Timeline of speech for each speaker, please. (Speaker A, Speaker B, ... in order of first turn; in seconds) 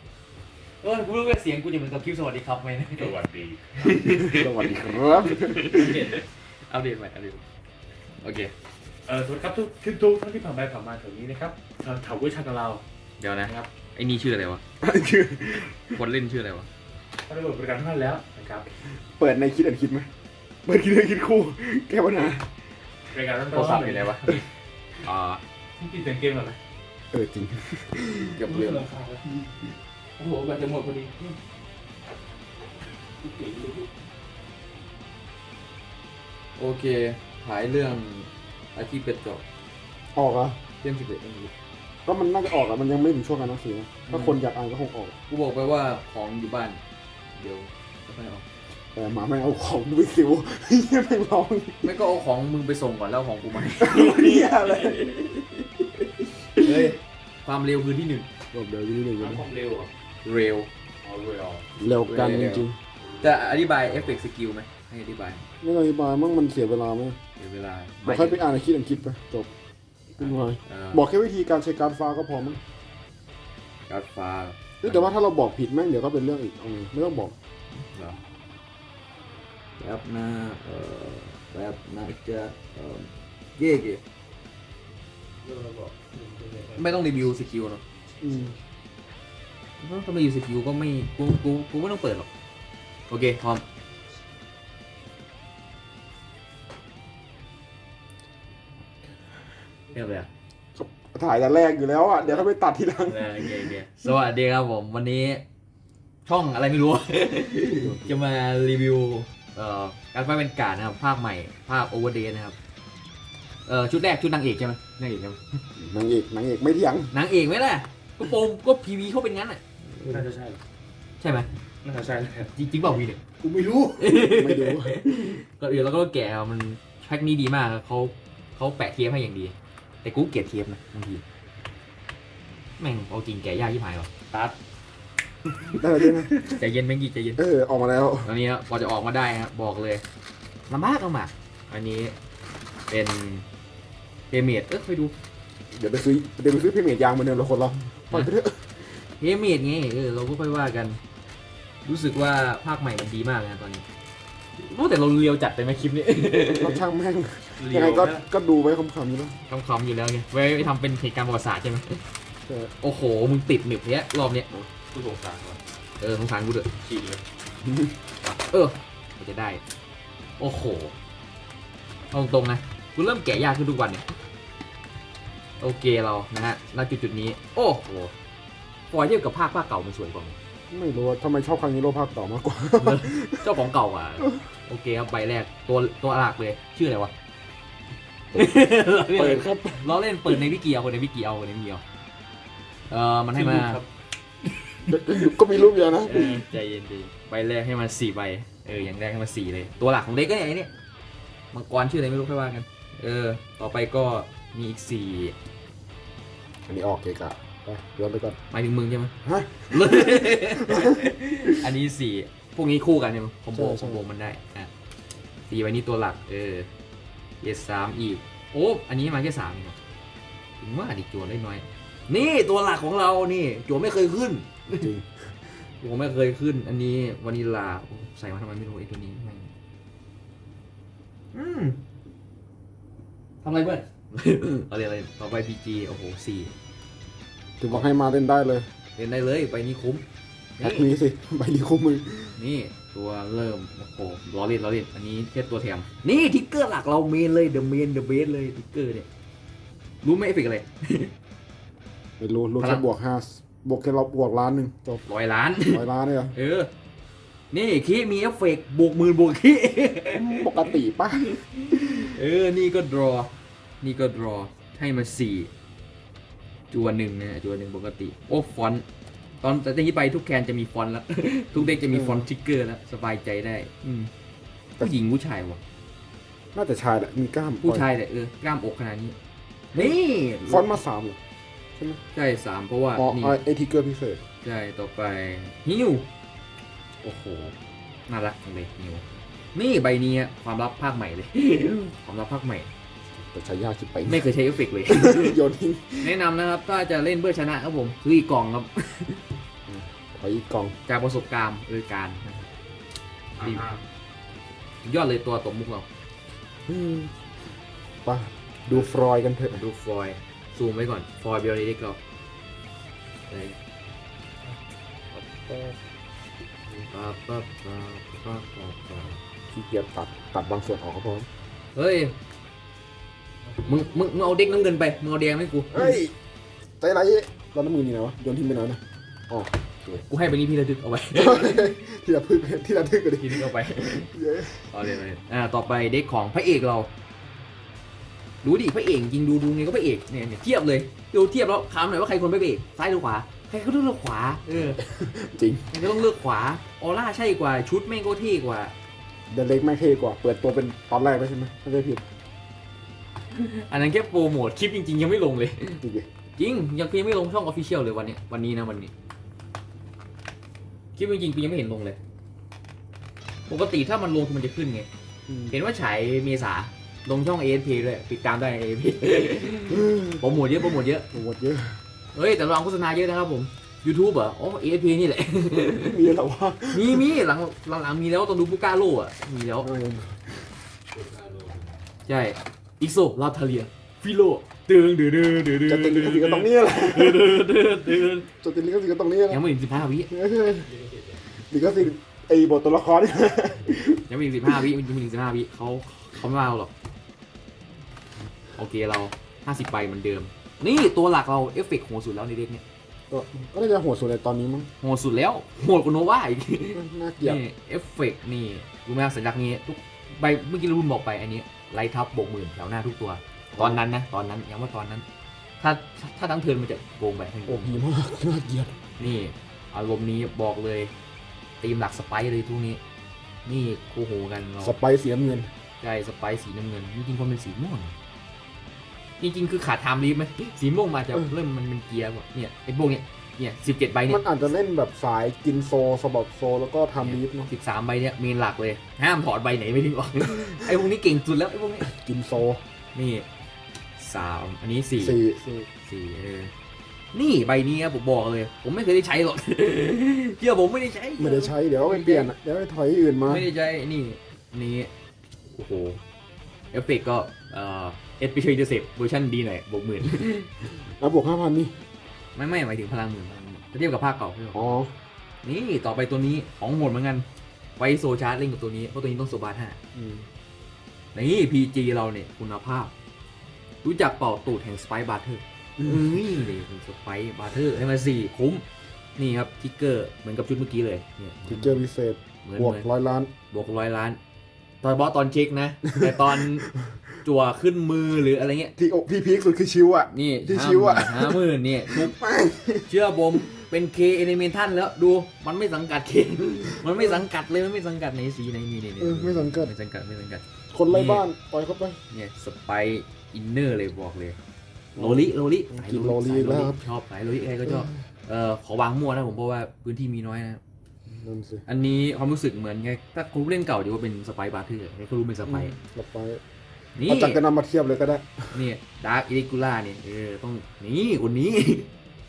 Speaker A: 0.8-3.2, 3.8-7.4, 8.2-8.5, 13.2-14.6, 15.9-16.7, 23.5-24.4, 25.0-25.4, 28.1-28.9, 30.3-30.8, 36.6-39.4, 40.8-41.5, 44.1-44.4, 45.3-46.8, 47.4-48.4, 51.8-54.9, 56.6-58.3, 60.2-60.7, 62.0-62.7, 63.2-65.4, 67.4-68.5, 70.2-71.0, 73.9-75.1, 77.7-78.2, 79.8-84.0, 86.7-87.8, 89.8-92.3, 93.1-93.6, 99.9-100.3, 103.0-105.4, 106.2-112.5, 113.7-115.6, 117.1-119.6, 121.2-121.5, 122.5-123.2, 124.0-131.2, 132.8-134.6, 135.6-137.4, 138.2-140.0, 140.7-142.1, 142.9-143.4, 144.3-145.1, 148.1-151.0, 151.8-153.8, 154.6-156.8, 159.5-162.0, 162.8-164.5, 166.0-166.7, 168.2-169.6, 170.4-170.9, 172.1-174.1, 175.6-178.1, 178.9-180.3, 182.8-187.1, 188.3-191.8, 192.9-193.8, 196.0-200.7, 201.5-205.3, 208.5-209.1, 209.7-214.7, 215.5-216.7, 217.4-219.8, 220.6-224.9, 225.8-229.5, 231.3-231.8, 233.4-236.5, 238.9-240.0, 240.6-240.9, 242.3-249.1, 250.0-251.1, 252.6-252.8, 255.1-256.7, 257.5-263.3, 263.8-265.5, 266.7-268.8, 269.4-274.1, 274.8-275.6, 277.6-279.1, 279.7-280.7, 282.1-283.4, 284.4-286.1, 288.1-289.0, 289.5-292.7, 294.1-295.4, 296.0-299.2, 300.9-302.5, 303.4-303.7, 304.8-305.9, 309.5-312.0, 313.3-313.6, 316.8-319.2, 321.7-322.1, 323.6-326.0, 330.0-331.8, 333.2-334.1, 334.7-336.9, 338.4-344.8, 345.7-348.7, 353.3-355.8, 356.4-358.9, 360.9-362.0, 363.5-364.9, 365.5-371.1, 372.1-376.0, 376.7-379.7, 382.1-388.3, 389.3-390.1, 394.1-396.7, 398.6-402.6, 404.8-415.0, 415.6-417.8, 419.0-420.9, 421.6-422.8, 423.4-424.8, 425.8-427.9, 429.2-434.2, 437.0-441.9, 442.9-443.3, 444.0-445.2, 445.9-446.5, 447.1-452.3, 453.2-454.9, 455.5-456.0, 456.7-460.5, 462.4-464.8, 465.4-467.2, 467.8-469.8, 471.1-472.9, 473.8-478.6, 479.2-481.8, 482.4-482.9, 483.5-484.2, 484.8-486.7, 487.2-488.7, 490.1-492.1, 492.9-501.2, 502.1-504.4, 505.0-510.6, 511.7-515.7, 517.0-517.4, 518.5-521.9
Speaker B: 3.0-4.0, 5.7-6.2, 9.1-12.8, 17.2-18.7, 23.1-24.4, 25.8-26.6, 28.4-29.5, 30.2-31.3, 33.2-33.9, 59.2-59.9, 61.0-61.6, 85.4-86.8, 120.1-120.6, 121.8-122.5, 157.6-158.2, 164.9-165.6, 166.8-167.2, 193.3-193.8, 303.4-303.8, 380.9-381.8
Speaker C: 4.1-6.0, 14.8-16.0, 19.2-20.1, 20.6-22.5, 27.1-28.4, 40.1-40.6, 42.0-45.1, 48.9-51.9, 53.8-55.6, 56.2-56.7, 58.5-59.5, 61.8-62.8, 65.6-67.2, 68.0-69.5, 70.2-72.6, 74.8-77.3, 88.2-88.6, 100.8-103.7, 107.7-108.1, 115.8-117.1, 123.4-125.0, 135.7-136.6, 137.4-138.3, 145.7-148.6, 156.5-159.3, 162.5-162.7, 167.6-167.9, 180.7-183.5, 188.3-190.4, 194.8-196.4, 206.7-208.4, 209.2-211.0, 213.5-214.0, 224.7-225.3, 237.6-238.7, 240.6-242.4, 252.2-255.0, 255.7-256.3, 260.1-261.3, 271.7-272.2, 276.5-277.9, 279.8-281.2, 282.9-284.2, 287.0-287.5, 293.1-294.3, 294.8-296.1, 299.7-300.8, 306.7-307.1, 308.0-309.6, 315.1-315.8, 319.5-321.3, 325.7-326.1, 326.8-330.0, 331.1-334.8, 344.6-345.8, 349.3-352.0, 355.8-356.1, 365.3-365.6, 369.7-370.2, 371.1-371.8, 375.7-377.1, 379.6-380.5, 385.6-387.3, 388.3-389.4, 390.1-390.7, 391.5-394.7, 403.1-404.7, 406.7-407.4, 413.5-413.8, 417.4-418.8, 424.6-425.5, 434.1-437.5, 441.8-442.6, 445.0-445.7, 451.2-453.4, 460.8-461.7, 464.5-464.9, 469.9-470.2, 475.8-476.1, 481.5-483.3, 485.9-487.0, 488.8-492.9, 496.8-497.2, 499.0-499.7, 500.7-502.0, 504.9-506.8, 511.1-511.6, 515.5-516.4, 517.1-518.6